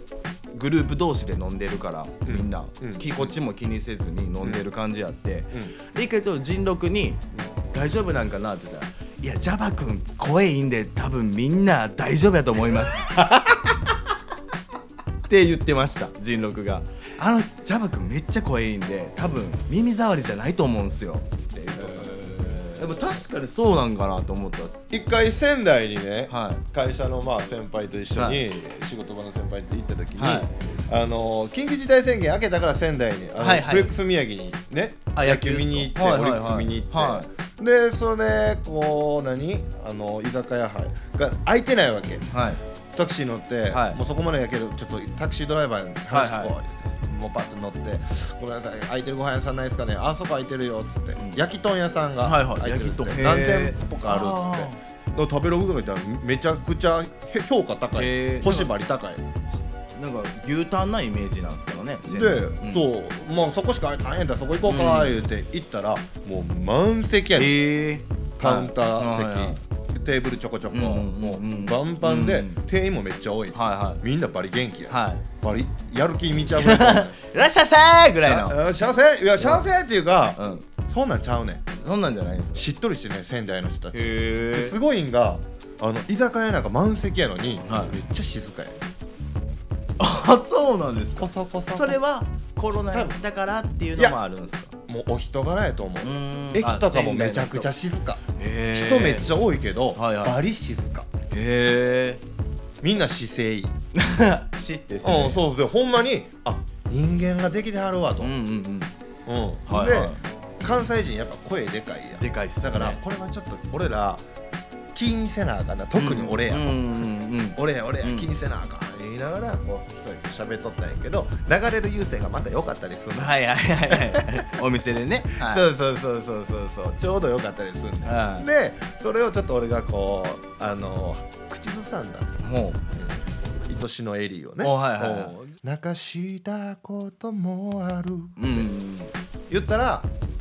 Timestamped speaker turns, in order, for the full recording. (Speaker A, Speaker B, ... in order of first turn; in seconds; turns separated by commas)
Speaker A: 0.5-13.2, Speaker B: 2.2-3.3, Speaker B: 4.4-4.7, Speaker B: 13.2-13.6, Speaker A: 15.3-24.8, Speaker B: 21.8-23.2, Speaker B: 24.9-42.3, Speaker A: 26.3-26.6, Speaker A: 28.1-28.4, Speaker A: 30.2-30.5, Speaker A: 33.4-33.9, Speaker A: 35.1-37.3, Speaker A: 42.3-42.6, Speaker B: 42.9-59.2, Speaker A: 43.7-44.0, Speaker A: 46.1-46.5, Speaker A: 51.2-51.4, Speaker A: 52.2-54.8, Speaker A: 58.0-58.7, Speaker A: 59.9-62.9, Speaker B: 62.0-67.6, Speaker A: 64.7-65.2, Speaker A: 67.3-69.6, Speaker B: 68.4-77.1, Speaker A: 70.7-72.6, Speaker A: 73.5-74.0, Speaker A: 74.9-75.2, Speaker A: 76.6-78.6, Speaker B: 78.2-81.7, Speaker A: 80.4-80.7, Speaker A: 81.7-82.7, Speaker B: 82.5-88.8, Speaker A: 83.9-84.8, Speaker A: 87.6-87.9, Speaker A: 90.0-94.7, Speaker B: 91.2-92.0, Speaker B: 94.9-101.1, Speaker A: 96.0-97.7, Speaker A: 98.4-99.3, Speaker A: 100.0-100.4, Speaker A: 101.3-102.2, Speaker B: 102.8-103.8, Speaker A: 103.9-105.4, Speaker B: 105.0-108.3, Speaker A: 108.2-108.9, Speaker B: 109.2-114.2, Speaker A: 109.7-110.2, Speaker A: 112.2-113.0, Speaker B: 114.9-117.0, Speaker A: 116.0-118.3, Speaker B: 117.5-124.6, Speaker A: 123.1-125.7, Speaker B: 125.4-132.4, Speaker A: 128.0-128.5, Speaker A: 132.4-132.8, Speaker B: 132.9-138.7, Speaker A: 134.6-135.4, Speaker A: 138.4-139.1, Speaker B: 139.5-140.1